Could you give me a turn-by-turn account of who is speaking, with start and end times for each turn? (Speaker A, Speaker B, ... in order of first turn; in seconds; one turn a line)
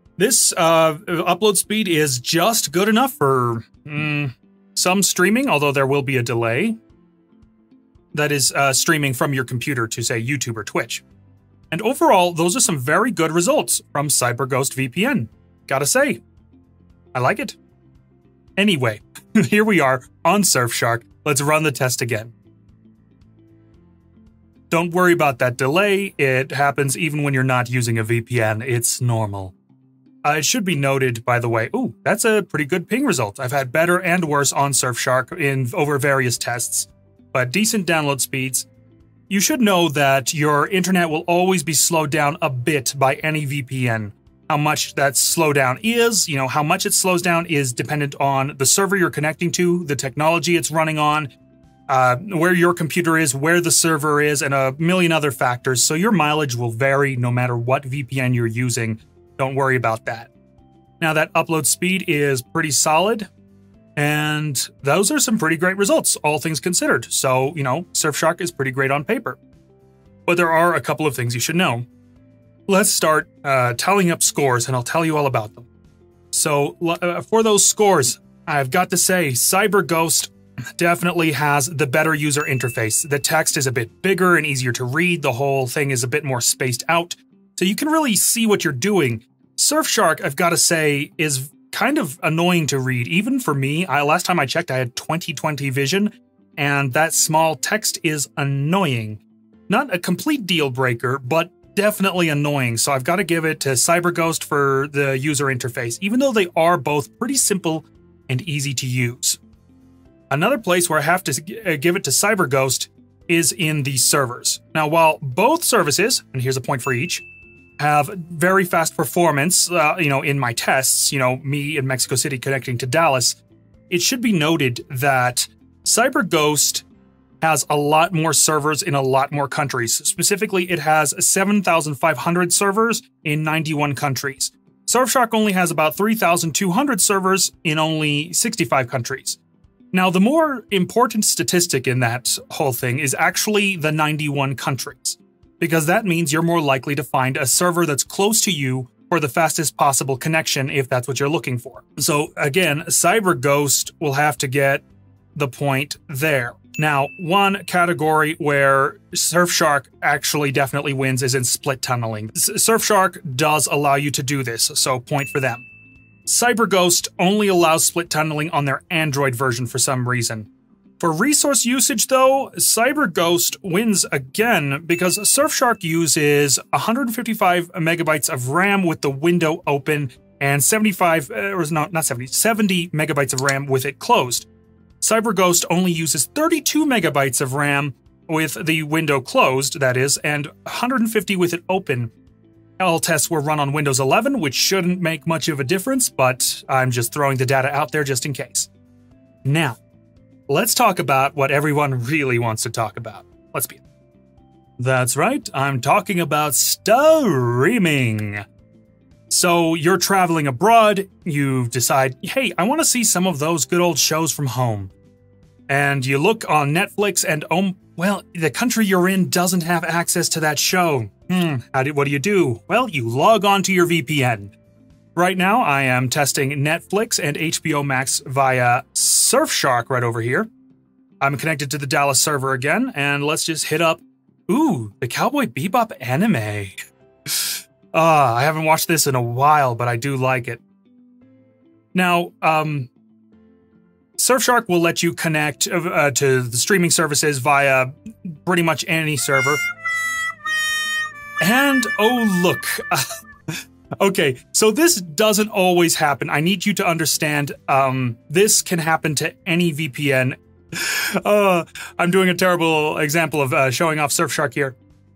Speaker A: 0.2-6.8
Speaker A: 8.1-11.0
Speaker A: 11.7-16.2
Speaker A: 17.1-17.6
Speaker A: 18.6-22.3
Speaker A: 24.7-29.5
Speaker A: 30.2-38.7
Speaker A: 39.3-51.3
Speaker A: 51.9-60.3
Speaker A: 61.0-63.3
Speaker A: 64.0-69.4
Speaker A: 70.3-71.9
Speaker A: 72.7-75.7
Speaker A: 76.3-109.4
Speaker A: 110.3-117.2
Speaker A: 117.8-126.8
Speaker A: 127.4-139.4
Speaker A: 139.9-154.8
Speaker A: 155.3-165.7
Speaker A: 166.3-170.5
Speaker A: 171.0-184.5
Speaker A: 185.0-192.1
Speaker A: 192.8-198.7
Speaker A: 199.4-199.8
Speaker A: 200.5-203.8
Speaker A: 204.8-208.4
Speaker A: 209.3-214.9
Speaker A: 215.7-224.6
Speaker A: 225.2-230.5
Speaker A: 231.2-240.6
Speaker A: 241.9-242.9
Speaker A: 244.2-249.6
Speaker A: 251.4-264.8